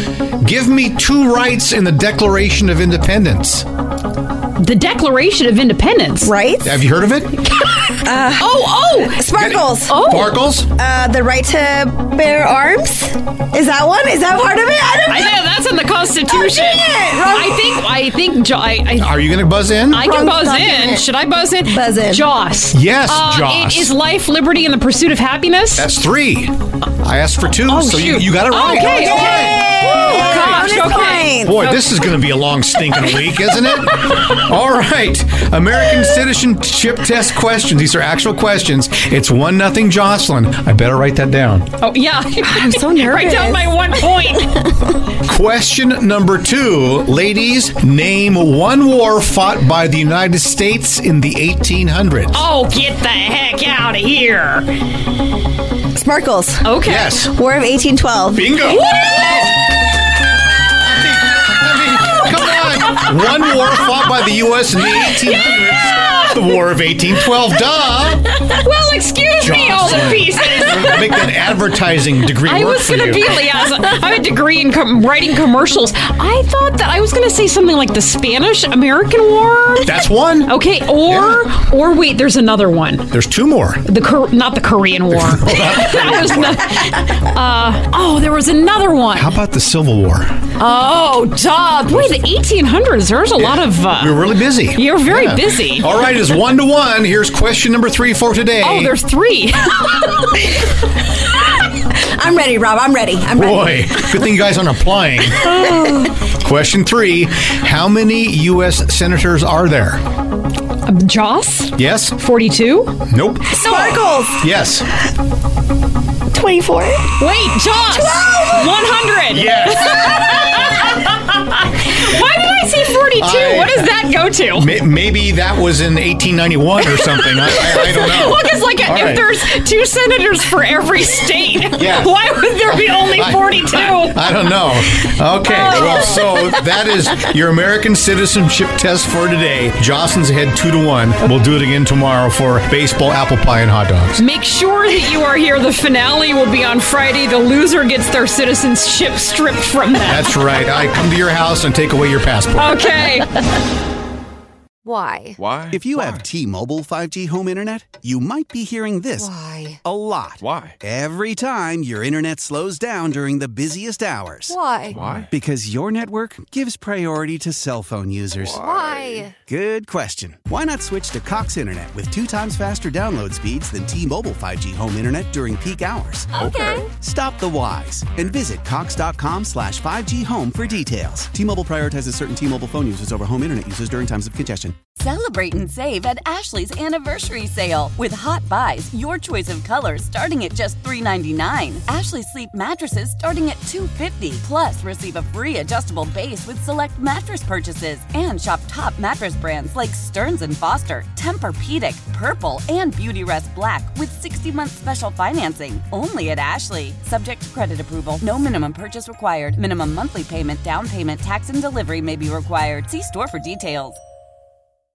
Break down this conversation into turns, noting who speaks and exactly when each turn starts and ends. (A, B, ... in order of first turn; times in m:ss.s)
0:00.4-0:03.6 A
0:04.6-0:06.3 B
0:06.2-0:06.8 C
0:06.6-0:07.4 A
0:07.5-0:10.0 C
0:08.4-0:09.3 B
0:09.3-0:10.7 A
0:09.9-0:10.3 B
0:10.7-0:15.4 C
0:15.1-0:19.2 B
0:16.3-0:17.8 C
0:19.0-0:20.1 A
0:19.9-0:25.9 B
0:20.0-0:21.1 C
0:21.7-0:22.3 C
0:22.7-0:23.9 A
0:25.8-0:41.7 A
0:27.6-0:31.9 B
0:28.8-0:31.5 C
0:41.8-0:44.7 B
0:42.4-0:44.3 C
0:45.2-0:52.4 A
0:52.3-0:54.8 B
0:55.9-0:58.6 C
0:56.6-0:57.1 B
0:56.8-0:57.3 A
0:58.3-0:59.6 A
0:58.6-0:59.5 B
1:00.8-1:08.3 A
1:06.0-1:06.3 B
1:08.4-1:11.1 B
1:09.4-1:13.3 A
1:12.4-1:23.2 B
1:19.8-1:21.5 A
1:23.1-1:23.8 A
1:23.8-1:29.3 B
1:25.1-1:26.6 A
1:29.1-1:30.4 A
1:30.6-1:35.9 B
1:33.4-1:38.9 A
1:38.6-1:39.8 B
1:40.1-1:40.6 C
1:41.9-1:43.7 C
1:43.3-1:45.5 A
1:45.6-1:46.1 B
1:45.6-1:46.0 C
1:46.3-1:50.0 A
1:50.8-1:53.0 B
1:51.8-1:52.2 A
1:53.1-1:54.9 A
1:53.5-1:54.4 C
1:56.3-1:57.1 C
1:57.2-2:04.7 B
1:57.9-1:59.0 C
1:59.3-2:00.5 A
2:03.2-2:03.9 A
2:04.5-2:09.3 A
2:07.0-2:14.2 B
2:11.7-2:12.1 A
2:13.0-2:24.2 A
2:15.4-2:16.3 B
2:24.2-2:30.4 B
2:30.1-2:32.9 A
2:32.5-2:33.4 B
2:34.8-2:35.4 D
2:35.4-2:36.2 E
2:35.7-3:04.8 F
2:39.2-2:39.8 D
2:40.4-2:40.7 E
2:44.5-2:45.0 D
2:44.9-2:45.3 E
2:48.4-2:49.1 E
2:48.7-2:49.3 D
2:56.3-2:56.8 E
2:56.4-2:56.8 D
3:05.0-3:34.0 G